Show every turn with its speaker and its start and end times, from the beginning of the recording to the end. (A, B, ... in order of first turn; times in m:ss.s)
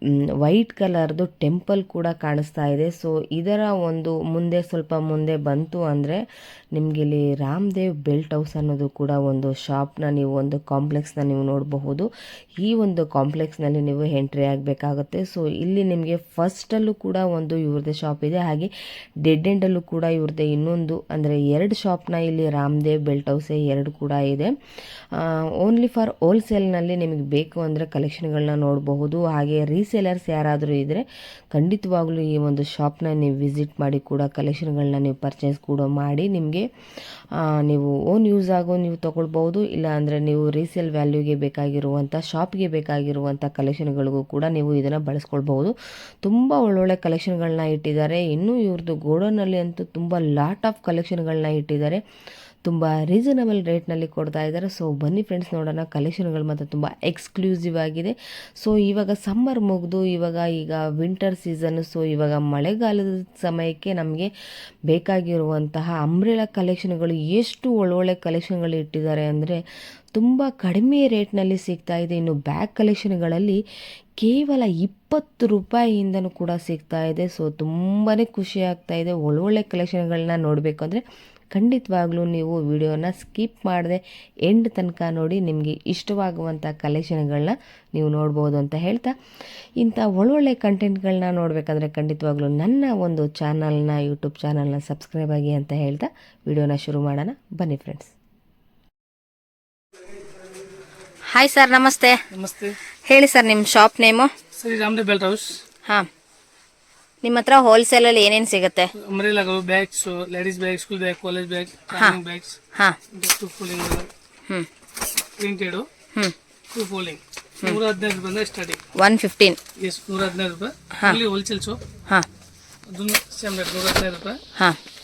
0:00.4-0:06.2 A
0:06.8-0:12.1 A
0:12.6-0:18.7 A
0:19.2-0:24.5 A
0:25.2-0:36.7 A
0:37.6-0:52.0 A
0:52.6-1:04.3 A
1:04.9-1:09.6 A
1:10.2-1:13.6 A
1:14.2-1:21.0 A
1:21.5-1:29.1 A
1:29.8-1:38.1 A
1:41.3-1:42.2 B
1:42.3-1:42.8 C
1:43.1-1:44.3 B
1:44.6-1:45.5 C
1:47.2-1:48.9 B
1:49.0-1:52.6 C
1:53.1-1:54.1 C
1:55.4-1:55.9 C
1:56.7-1:58.8 C
1:59.0-1:59.6 B
1:59.8-2:01.8 C
2:02.9-2:04.4 C